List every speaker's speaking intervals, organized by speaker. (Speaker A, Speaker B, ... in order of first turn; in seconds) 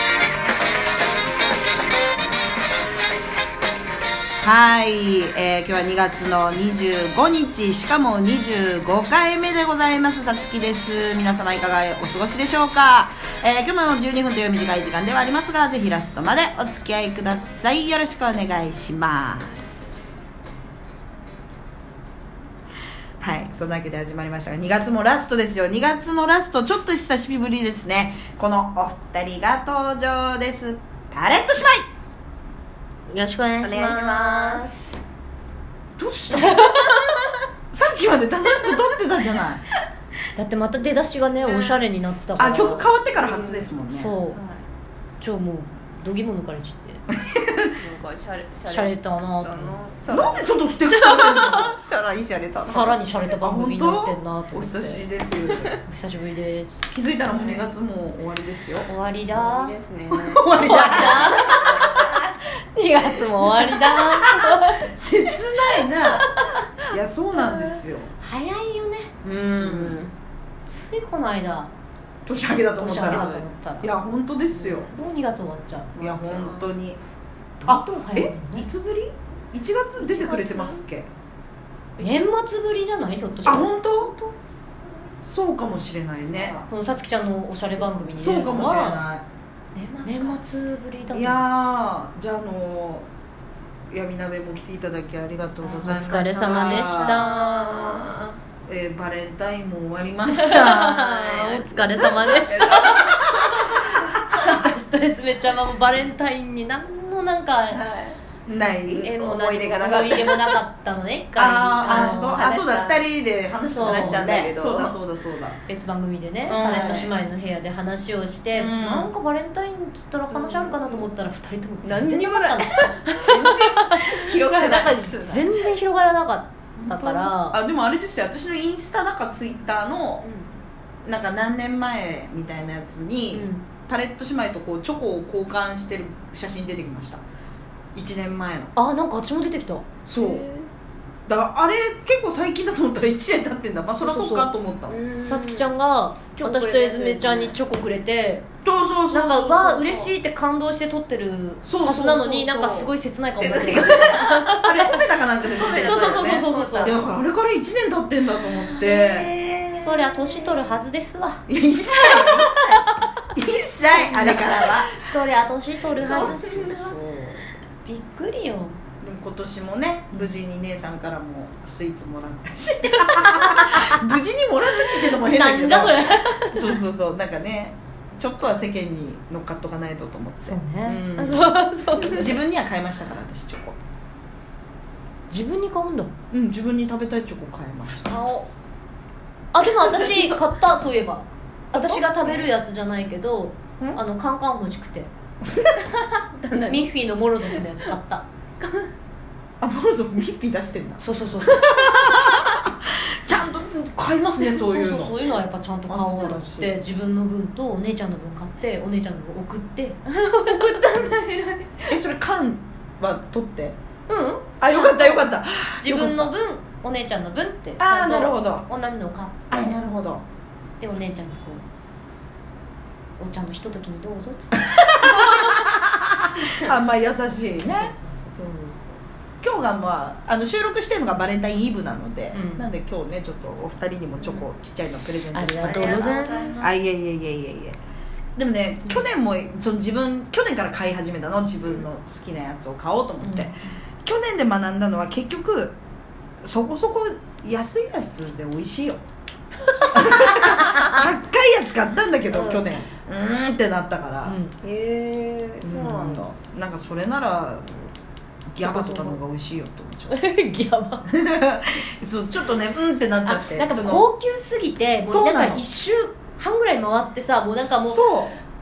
Speaker A: 4.4-19.8, 23.2-31.9, 36.0-36.8, 37.7-39.6, 42.4-44.2, 47.1-47.7, 50.1-51.8, 53.4-55.7, 56.9-58.9, 60.1-61.7, 63.6-66.3, 66.9-68.1, 69.3-70.0, 72.3-74.9, 76.0-77.0, 77.7-81.1, 83.4-84.2, 85.2-86.7, 87.7-89.2, 91.1-93.1, 93.9-97.3, 98.7-101.0, 102.7-103.7, 108.5-109.1, 111.4-115.6, 116.5-117.1, 118.5-119.1, 126.8-130.2, 131.1-137.2, 137.9-138.7, 140.1-140.5, 141.3-145.0, 148.6-150.1, 151.7-152.9, 154.1-159.3, 161.5-164.9, 165.9-167.4, 169.0-183.8, 186.3-188.2, 191.7-192.1, 199.6-205.2, 205.9-206.8, 211.9-213.8, 214.6-216.3, 217.8-218.7, 219.5-220.2, 224.9-227.9, 229.4-237.8, 238.4-245.8, 246.4-249.0, 249.9-254.4, 255.6-257.9, 258.5-260.2, 261.1-264.1, 265.1-265.6, 267.6-268.3
Speaker B: 33.1-34.7, 36.3-37.0, 40.4-42.9, 43.9-44.4, 45.2-47.0, 48.7-49.8, 52.6-55.1, 55.8-56.9, 58.9-59.8, 60.6-64.9, 65.9-66.9, 68.2-69.3, 70.7-71.7, 72.8-73.9, 74.5-76.0, 77.6-78.7, 82.0-84.3, 86.6-89.0, 89.8-91.5, 95.6-98.1, 100.3-103.3, 104.1-107.8, 109.0-112.5, 113.7-114.2, 115.7-127.6, 133.3-133.7, 138.8-139.9, 144.0-144.5, 145.2-148.5, 149.1-155.1, 155.7-157.0, 159.8-161.4, 162.0-163.0, 163.9-166.9, 167.8-168.8, 173.0-174.0, 175.0-176.8, 180.4-181.0, 181.6-182.1, 185.3-186.2, 188.1-188.4, 189.5-195.1, 196.7-198.3, 201.0-202.0, 204.4-210.0, 214.1-215.3, 215.8-219.8, 220.8-221.7, 223.2-225.5, 227.6-228.8, 232.3-232.7, 235.3-236.7, 243.2-243.8, 249.8-251.1, 252.3-252.8, 254.2-254.6, 258.6-259.2, 260.1-261.1, 263.2-268.1
Speaker C: 33.6-35.0, 41.4-41.9, 43.1-43.8, 44.3-44.6, 47.8-53.0, 59.3-62.3, 69.4-70.1, 73.0-73.3, 76.0-76.7, 80.0-80.8, 89.8-90.4, 96.3-98.4, 100.7-103.8, 107.7-108.2, 108.9-110.6, 111.8-113.0, 113.8-115.0, 116.5-117.1, 120.3-121.1, 121.8-125.7, 130.2-130.5, 140.2-140.7, 144.9-145.7, 146.4-147.6, 153.4-154.4, 155.4-157.1, 158.7-160.6, 166.0-166.6, 181.2-182.4, 189.8-190.4, 195.8-196.9, 197.5-197.9, 198.6-198.9, 210.1-212.0, 235.6-236.7, 254.6-256.3